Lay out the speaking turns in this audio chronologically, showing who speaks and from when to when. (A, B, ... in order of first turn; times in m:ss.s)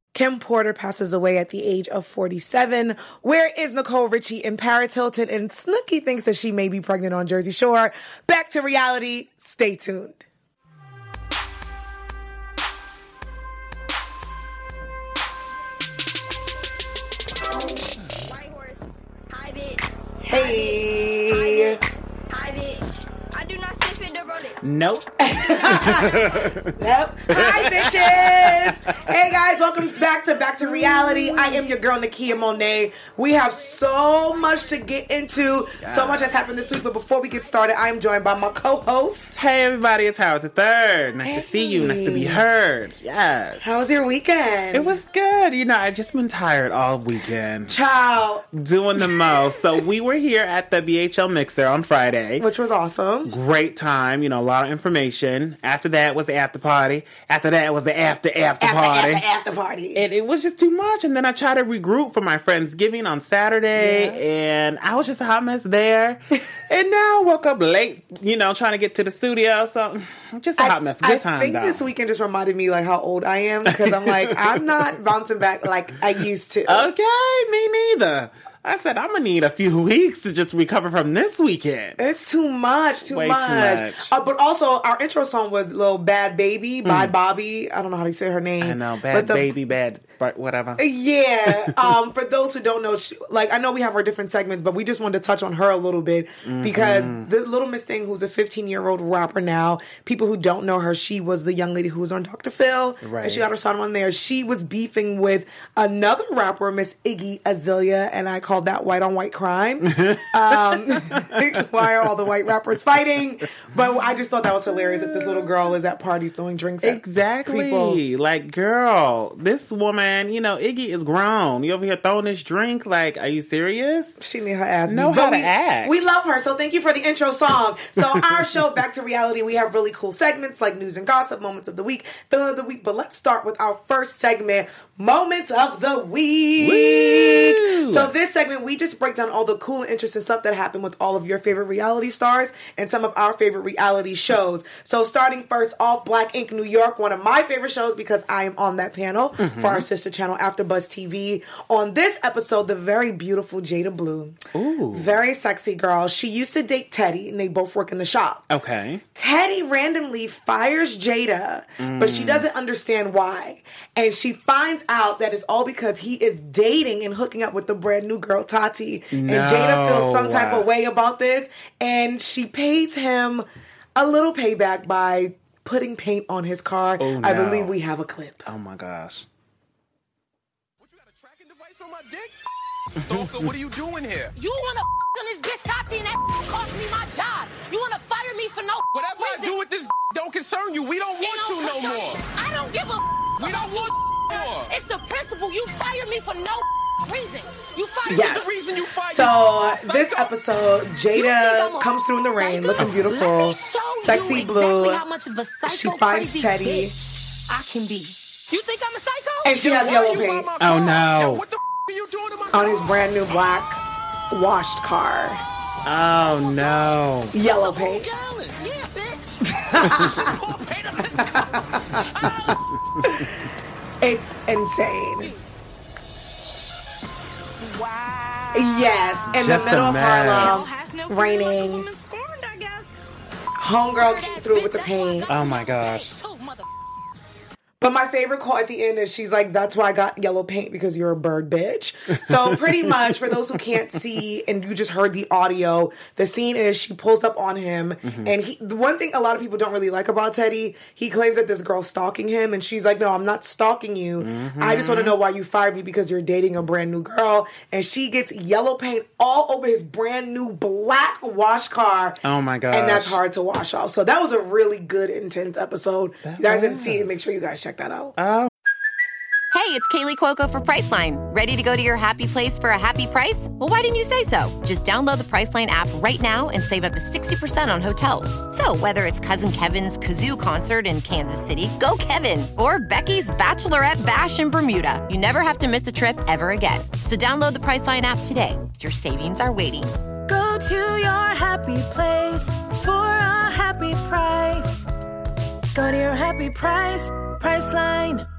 0:00.1-0:10.2 A
0:18.2-0:24.6 B
0:20.2-0:21.8 A
0:24.6-0:26.7 C
0:25.2-0:39.3 A
0:25.5-0:26.3 B
0:27.3-0:29.1 C
0:35.8-0:36.4 C
0:39.3-0:43.8 C
0:41.2-0:42.4 A
0:43.6-0:45.0 A
0:44.7-0:47.8 C
0:47.6-0:48.4 A
0:48.5-0:52.4 C
0:49.0-0:49.3 A
0:52.4-0:53.4 A
0:53.2-0:59.2 C
0:58.6-1:00.0 A
0:59.9-1:11.8 C
1:03.7-1:04.2 A
1:10.6-1:16.9 A
1:13.7-1:14.9 C
1:16.6-1:22.0 C
1:22.0-1:29.5 A
1:23.0-1:24.1 C
1:26.8-1:27.1 C
1:28.6-1:30.8 C
1:30.8-1:58.0 A
1:31.5-1:31.9 C
1:36.4-1:37.3 C
1:43.0-1:43.5 C
1:49.9-1:51.8 C
1:54.6-1:55.7 C
1:56.8-2:04.2 C
2:04.2-2:34.4 A
2:04.9-2:06.0 C
2:16.6-2:18.1 C
2:29.4-2:29.9 C
2:34.5-2:35.2 C
2:34.9-2:38.4 A
2:38.5-2:39.0 C
2:39.1-2:58.4 A
2:41.8-2:42.5 C
2:49.1-2:50.7 C
2:57.0-2:57.8 C
2:58.4-2:59.2 C
3:00.8-3:02.3 D
3:03.0-3:04.3 D
3:03.0-3:03.5 C
3:04.3-3:09.5 E
3:08.9-3:12.2 D
3:11.2-3:18.6 E
3:13.4-3:14.7 D
3:18.1-3:19.4 D
3:18.1-3:18.4 A
3:19.1-3:25.0 A
3:20.0-3:20.3 E
3:21.1-3:29.6 E
3:22.8-3:23.0 C
3:25.6-3:26.9 A
3:29.4-3:30.5 A
3:29.6-3:33.1 D
3:30.6-3:31.4 C
3:32.5-3:35.4 A
3:35.8-3:37.3 C
3:37.3-3:38.1 A
3:37.4-3:42.6 E
3:37.9-3:38.6 D
3:39.4-3:40.4 A
3:39.8-3:40.2 C
3:40.2-3:41.1 D
3:41.3-3:42.5 A
3:43.0-3:43.3 A
3:44.0-3:45.3 A
3:47.6-3:53.0 E
3:48.5-3:51.9 A
3:49.3-3:50.7 C
3:53.6-3:55.3 A
3:54.0-3:56.7 E
3:55.3-3:56.1 C
3:57.8-4:22.2 A
4:02.2-4:03.8 C
4:08.0-4:08.3 C
4:14.2-4:15.2 C
4:22.2-4:23.2 C
4:22.7-4:28.1 A
4:26.2-4:27.1 C
4:28.2-4:28.5 C
4:29.5-4:49.9 F
4:50.3-4:54.8 G
4:55.7-4:58.2 G